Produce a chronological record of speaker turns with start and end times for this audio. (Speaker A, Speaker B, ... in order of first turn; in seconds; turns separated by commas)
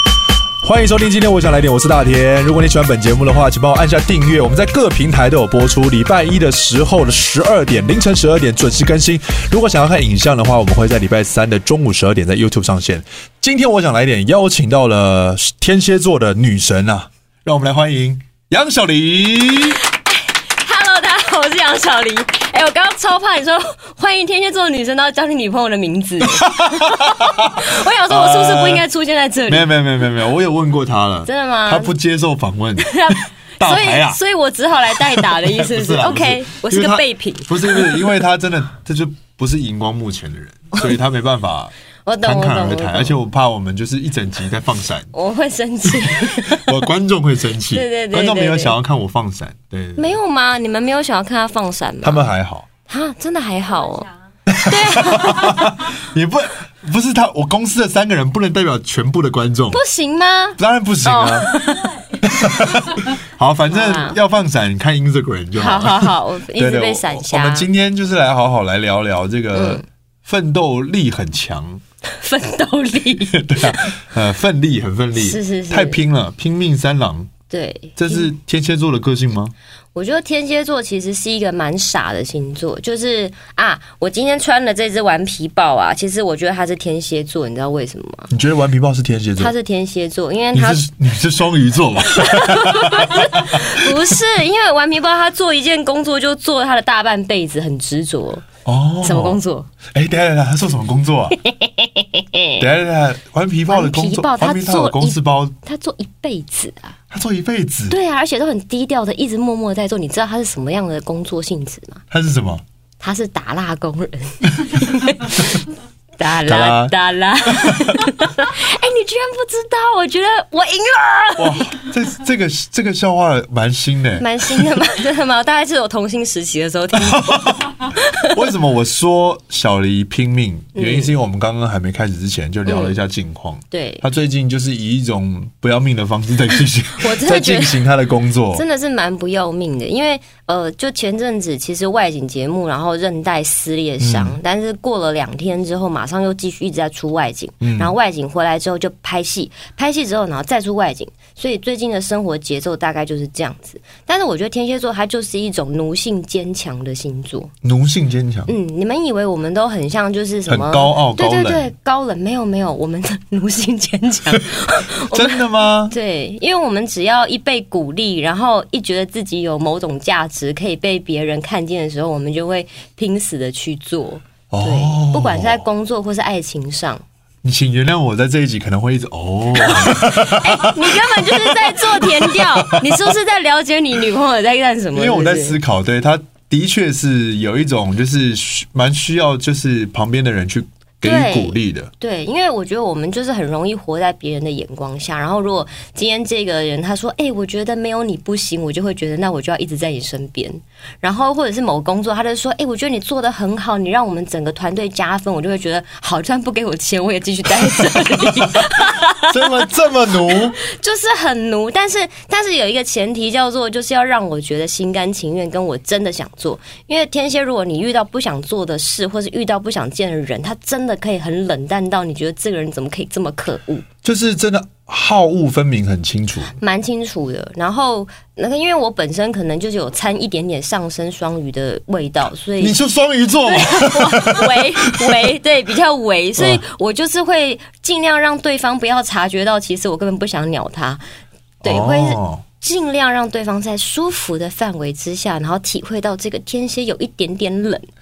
Speaker A: 0.6-19.8, Speaker B: 19.8-29.7, Speaker A: 26.2-28.9, Speaker A: 29.5-34.2, Speaker B: 31.2-31.9, Speaker B: 32.8-38.1, Speaker A: 34.9-45.1, Speaker B: 42.0-43.2, Speaker B: 45.1-46.7, Speaker A: 46.1-50.2, Speaker B: 47.7-48.8, Speaker B: 50.0-52.3, Speaker A: 52.0-52.7, Speaker B: 52.9-55.8, Speaker A: 54.5-59.8, Speaker B: 59.7-62.2, Speaker A: 60.6-61.6, Speaker A: 62.2-71.8, Speaker B: 63.7-64.2, Speaker B: 65.5-67.7, Speaker B: 69.5-69.8, Speaker B: 72.0-73.9, Speaker A: 73.2-77.3, Speaker B: 75.2-76.0, Speaker B: 77.5-78.3, Speaker A: 78.0-79.5, Speaker B: 79.9-88.3, Speaker A: 88.3-89.5, Speaker B: 89.4-90.8, Speaker A: 90.5-93.9, Speaker B: 92.1-98.5, Speaker A: 98.6-99.4, Speaker B: 99.0-99.7, Speaker A: 99.9-101.4, Speaker B: 101.4-102.6, Speaker A: 102.6-105.5, Speaker B: 103.7-107.0, Speaker A: 107.1-108.0, Speaker B: 107.9-112.0, Speaker A: 112.1-112.6, Speaker B: 113.0-115.6, Speaker B: 116.2-121.8, Speaker A: 116.4-116.9, Speaker A: 117.5-118.0, Speaker A: 121.4-124.3, Speaker B: 124.2-128.5, Speaker A: 127.0-138.6, Speaker B: 130.7-131.1, Speaker B: 132.7-133.0, Speaker B: 133.7-134.0, Speaker B: 137.0-137.8, Speaker B: 138.5-157.5, Speaker A: 144.0-144.4, Speaker A: 147.6-147.9, Speaker A: 157.6-158.5, Speaker B: 158.5-177.0, Speaker A: 160.5-161.7, Speaker A: 165.1-166.0, Speaker A: 174.5-175.6, Speaker A: 177.4-183.1, Speaker B: 179.5-185.6, Speaker A: 184.9-191.9, Speaker B: 191.0-209.7, Speaker A: 209.1-210.6, Speaker B: 210.3-223.8, Speaker A: 224.0-226.6, Speaker B: 226.6-232.8, Speaker A: 232.6-235.3, Speaker B: 233.4-241.0, Speaker A: 236.4-236.6, Speaker B: 241.6-247.9, Speaker A: 241.6-242.4